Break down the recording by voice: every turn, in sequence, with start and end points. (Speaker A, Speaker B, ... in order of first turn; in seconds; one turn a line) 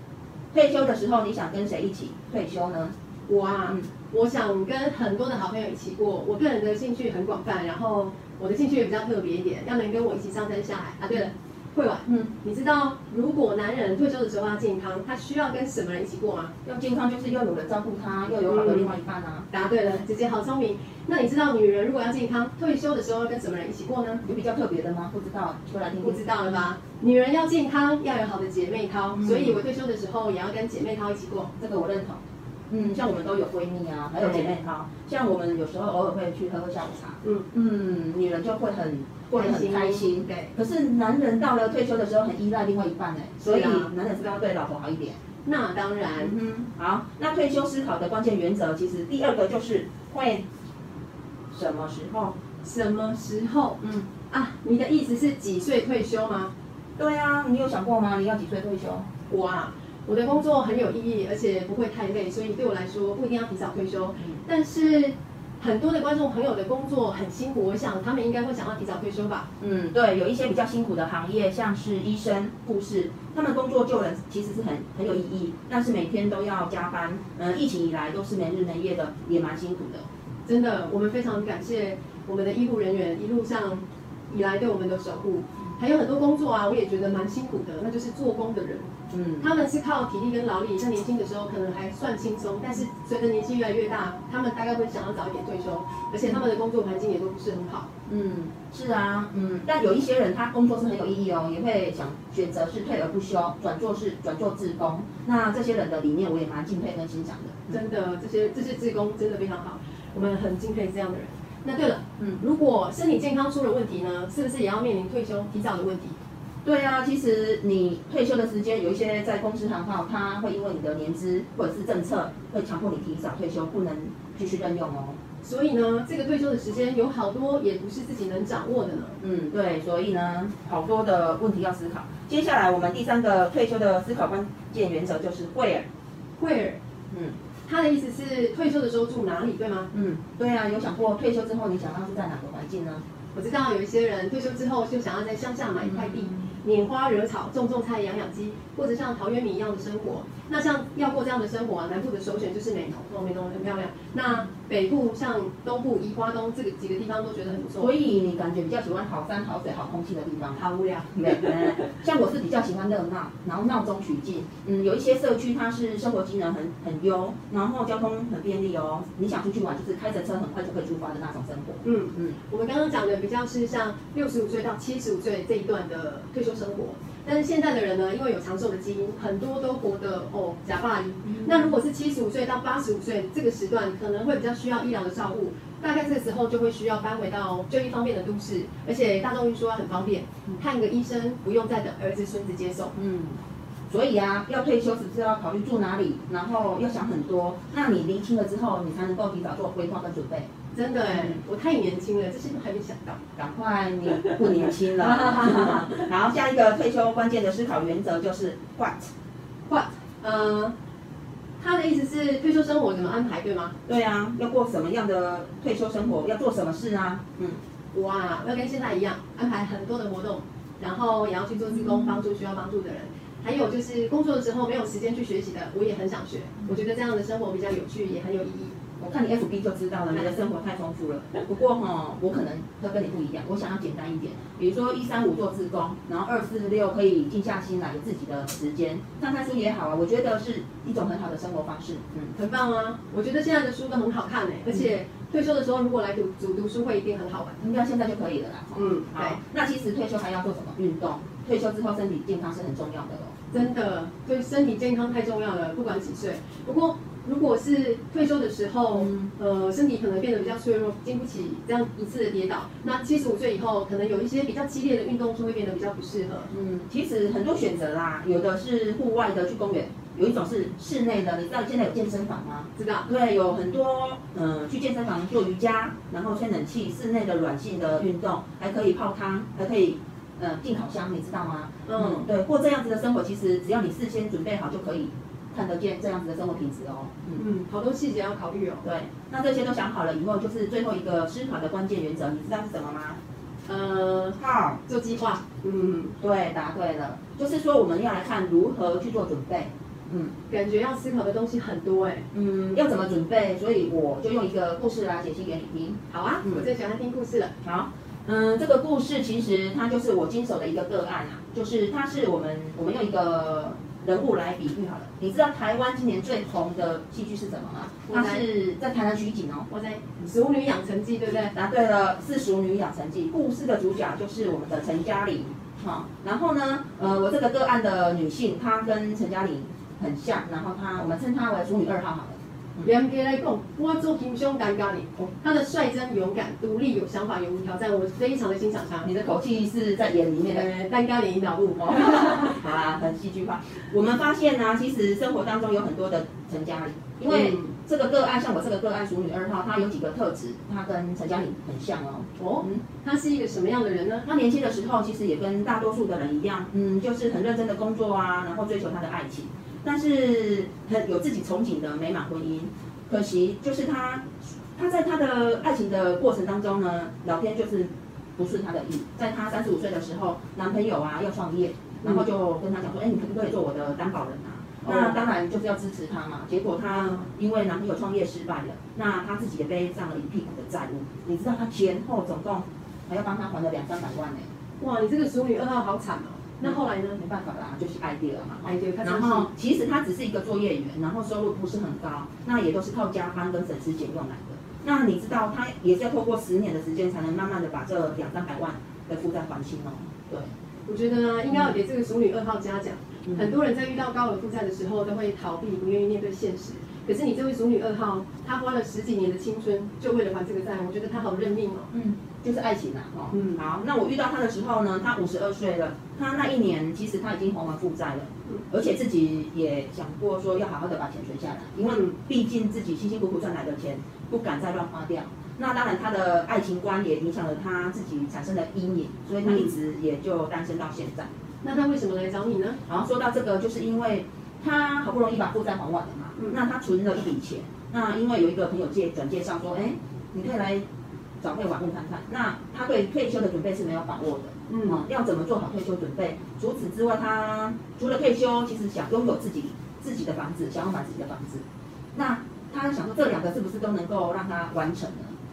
Speaker A: 0.5-2.9
Speaker B: 3.3-16.5
Speaker A: 12.1-12.3
Speaker A: 16.6-19.5
Speaker B: 18.5-18.9
Speaker B: 19.5-24.2
Speaker A: 24.2-26.6
Speaker B: 26.0-31.5
Speaker A: 29.1-29.6
Speaker A: 31.6-45.2
Speaker B: 34.2-34.5
Speaker B: 37.2-37.5
Speaker B: 39.3-40.5
Speaker B: 43.4-43.9
Speaker B: 45.4-46.3
Speaker A: 46.2-50.4
Speaker A: 51.5-52.3
Speaker B: 52.6-56.5
Speaker A: 53.8-54.1
Speaker A: 57.0-59.1
Speaker B: 59.3-69.5
Speaker A: 69.6-80.0
Speaker B: 80.5-88.9
Speaker A: 89.1-89.5
Speaker B: 89.4-97.9
Speaker A: 98.1-107.8
Speaker B: 107.7-116.2
Speaker A: 116.6-125.2
Speaker B: 125.4-129.2
Speaker A: 129.2-135.8
Speaker B: 136.4-136.8
Speaker B: 137.7-139.9
Speaker A: 139.9-143.0
Speaker B: 143.3-157.9
Speaker A: 145.9-146.6
Speaker A: 157.8-172.4
Speaker B: 160.5-161.8
Speaker B: 171.8-192.9
Speaker A: 181.2-181.7
Speaker A: 192.9-193.4
Speaker A: 193.9-200.5
Speaker B: 200.7-203.2
Speaker A: 201.1-201.4
Speaker A: 203.3-209.1
Speaker B: 205.0-205.9
Speaker B: 209.7-210.7
Speaker B: 211.6-213.7
Speaker A: 213.8-217.6
Speaker B: 217.9-228.7
Speaker A: 229.0-242.3
Speaker B: 242.3-247.6
Speaker A: 247.6-253.6
Speaker B: 248.7-249.4
Speaker B: 253.5-266.5
Speaker A: 258.9-259.3
Speaker A: 266.5-287.4
Speaker B: 272.8-273.1
Speaker B: 281.9-282.2
Speaker B: 287.4-288.8
Speaker A: 288.8-293.2
Speaker B: 293.6-296.1
Speaker A: 294.4-294.8
Speaker A: 296.2-300.3
Speaker B: 300.5-302.3
Speaker A: 302.3-306.6
Speaker B: 306.1-307.5
Speaker A: 307.6-319.7
Speaker B: 318.1-318.4
Speaker B: 319.7-321.5
Speaker A: 321.5-332.9
Speaker B: 332.8-339.1
Speaker A: 339.0-340.7
Speaker B: 340.5-342.5
Speaker A: 341.8-352.8
Speaker B: 347.3-347.7
Speaker B: 352.4-354.3
Speaker A: 354.2-384.5
Speaker B: 374.8-375.2
Speaker B: 376.9-377.2
Speaker B: 384.8-387.2
Speaker A: 386.6-400.5
Speaker B: 388.6-389.5
Speaker B: 400.9-411.9
Speaker A: 403.2-403.5
Speaker A: 411.9-431.3
Speaker B: 413.3-413.6
Speaker B: 421.8-422.1
Speaker B: 431.6-432.8
Speaker A: 432.9-440.8
Speaker A: 441.4-451.6
Speaker B: 444.7-445.0
Speaker A: 452.1-455.3